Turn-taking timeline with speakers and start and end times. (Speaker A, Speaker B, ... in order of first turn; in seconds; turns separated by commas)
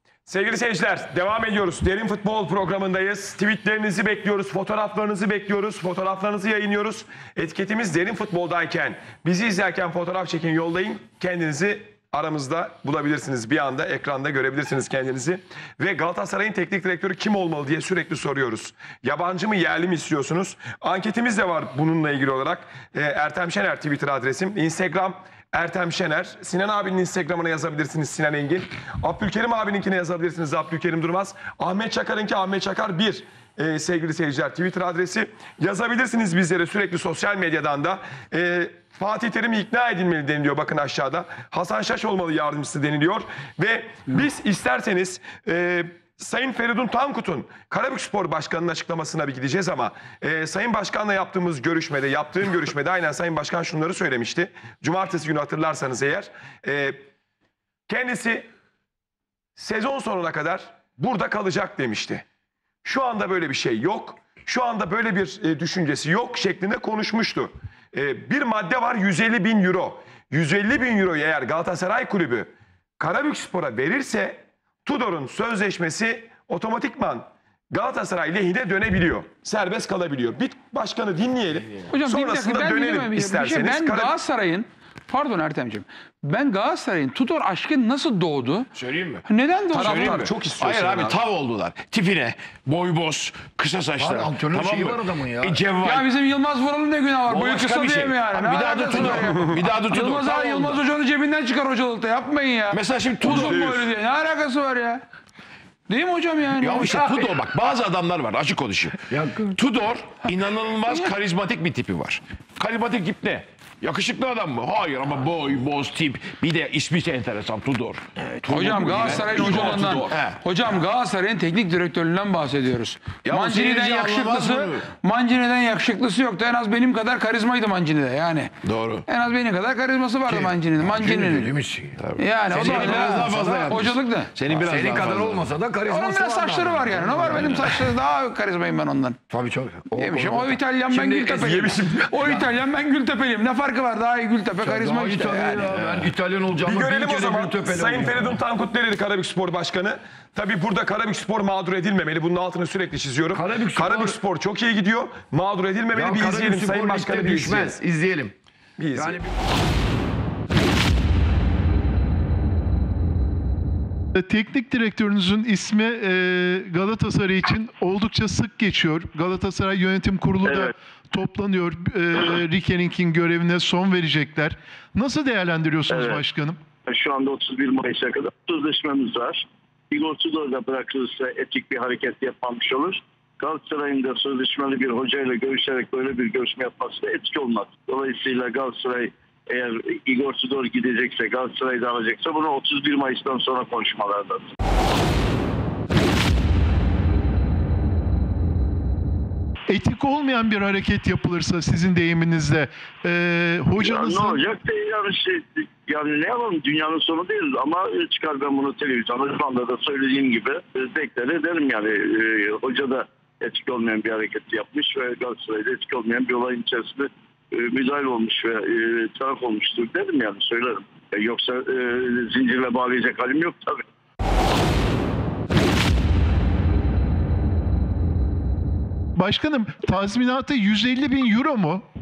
Speaker A: 0.2-57.0, Speaker A: 57.9-58.5, Speaker A: 59.6-62.2, Speaker A: 62.8-84.2, Speaker B: 81.9-88.7, Speaker C: 88.7-96.1, Speaker B: 89.2-90.3, Speaker A: 89.7-91.2, Speaker D: 94.0-95.6, Speaker B: 95.8-105.0, Speaker C: 97.3-100.8, Speaker A: 99.2-99.6, Speaker C: 102.7-103.6, Speaker A: 103.4-103.9, Speaker B: 105.9-107.0, Speaker C: 106.6-120.4, Speaker D: 106.9-107.3, Speaker D: 109.1-109.5, Speaker B: 110.9-111.1, Speaker B: 118.4-128.5, Speaker A: 119.2-120.1, Speaker C: 123.2-124.9, Speaker C: 128.6-129.1, Speaker B: 129.1-131.6, Speaker D: 130.3-132.0, Speaker C: 132.0-135.4, Speaker B: 132.2-134.3, Speaker D: 132.5-133.9, Speaker D: 134.5-137.7, Speaker B: 135.9-139.2, Speaker C: 137.3-137.9, Speaker D: 139.3-142.5, Speaker B: 139.9-145.7, Speaker A: 141.3-142.1, Speaker D: 144.6-148.4, Speaker C: 145.7-146.1, Speaker A: 146.7-157.7, Speaker D: 153.3-154.2, Speaker D: 155.9-158.3, Speaker A: 158.8-159.3, Speaker D: 158.9-159.3, Speaker E: 164.2-176.6, Speaker F: 170.4-170.7, Speaker F: 175.9-176.2, Speaker F: 176.9-194.5, Speaker E: 199.7-204.4, Speaker F: 203.8-223.7, Speaker E: 229.2-231.9